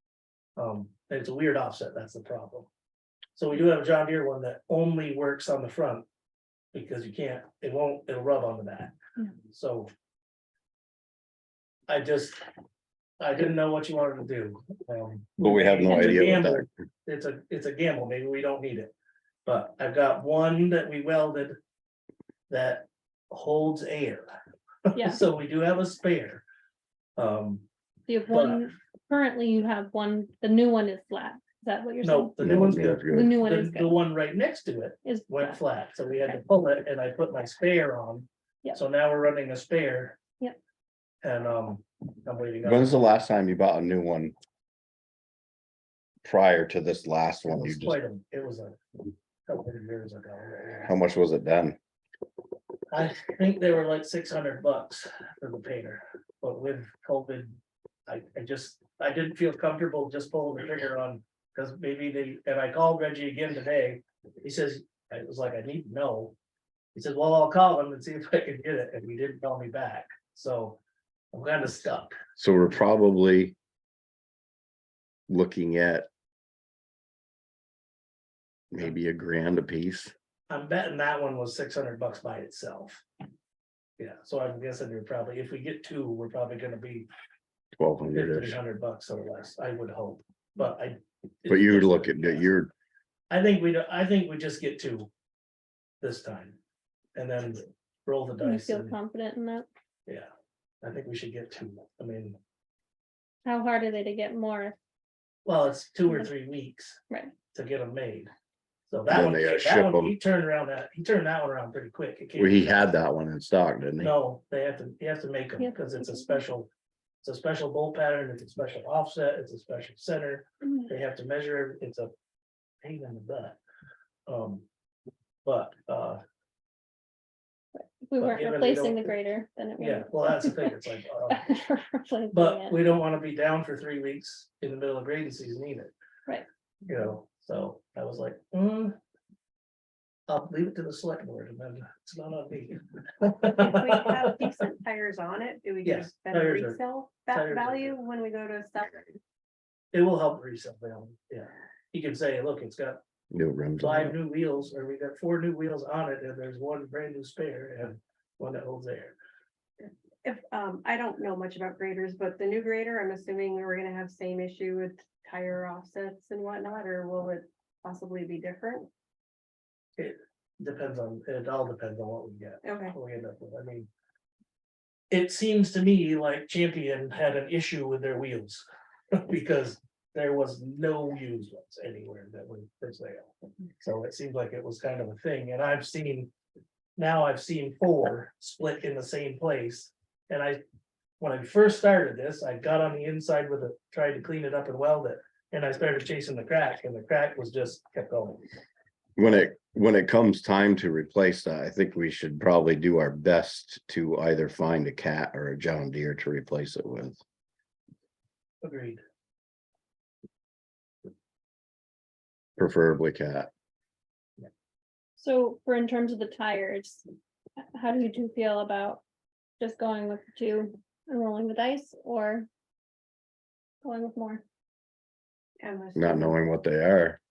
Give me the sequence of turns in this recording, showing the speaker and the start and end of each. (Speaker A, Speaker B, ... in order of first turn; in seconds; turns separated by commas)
Speaker A: 0.6-2.7, Speaker A: 3.4-6.0, Speaker A: 6.7-8.9, Speaker A: 9.5-9.9, Speaker A: 11.9-12.4, Speaker A: 13.2-18.9, Speaker B: 15.4-16.7, Speaker C: 15.9-16.3, Speaker A: 19.4-21.6, Speaker A: 22.5-24.3, Speaker A: 24.9-26.4, Speaker C: 24.9-25.2, Speaker A: 27.2-27.6, Speaker C: 28.1-32.4, Speaker A: 28.3-28.6, Speaker A: 32.0-40.2, Speaker B: 32.4-33.3, Speaker C: 33.1-34.0, Speaker C: 35.0-35.5, Speaker A: 41.2-43.0, Speaker B: 42.6-44.3, Speaker B: 46.2-48.0, Speaker A: 47.5-48.8, Speaker A: 49.5-50.9, Speaker B: 50.9-51.8, Speaker A: 52.9-66.3, Speaker A: 66.9-70.8, Speaker A: 71.3-72.2, Speaker B: 72.4-73.5, Speaker B: 75.3-76.1, Speaker B: 78.7-80.1, Speaker A: 80.5-83.0, Speaker A: 84.0-87.1, Speaker B: 87.8-88.6, Speaker A: 88.1-92.5, Speaker B: 91.5-92.7, Speaker A: 93.3-95.1, Speaker A: 96.0-96.6, Speaker A: 97.2-98.9, Speaker C: 98.4-99.7, Speaker A: 100.8-102.4, Speaker C: 103.4-104.8, Speaker A: 105.4-107.0, Speaker A: 107.5-108.3, Speaker A: 108.9-112.7, Speaker B: 109.1-110.1, Speaker B: 112.3-114.1, Speaker A: 114.0-116.7, Speaker C: 115.6-116.4, Speaker A: 117.2-122.1, Speaker A: 122.8-123.6, Speaker A: 124.3-124.7, Speaker A: 125.4-126.2, Speaker C: 127.7-132.8, Speaker A: 128.2-129.1, Speaker A: 129.8-131.4, Speaker A: 132.3-135.9, Speaker A: 136.8-139.0, Speaker A: 140.3-144.0, Speaker D: 143.4-149.2, Speaker A: 145.8-148.0, Speaker A: 149.9-153.0, Speaker B: 153.3-154.2, Speaker A: 153.8-159.2, Speaker D: 159.8-168.9, Speaker A: 170.0-173.9, Speaker D: 172.6-172.9, Speaker A: 175.1-186.3, Speaker A: 187.0-190.6, Speaker A: 191.2-198.4, Speaker B: 199.2-207.2, Speaker A: 208.6-209.0, Speaker B: 212.6-213.5, Speaker C: 215.2-217.0, Speaker C: 217.7-219.0, Speaker C: 219.6-222.5, Speaker C: 223.8-224.4, Speaker D: 225.6-226.4, Speaker B: 225.9-227.2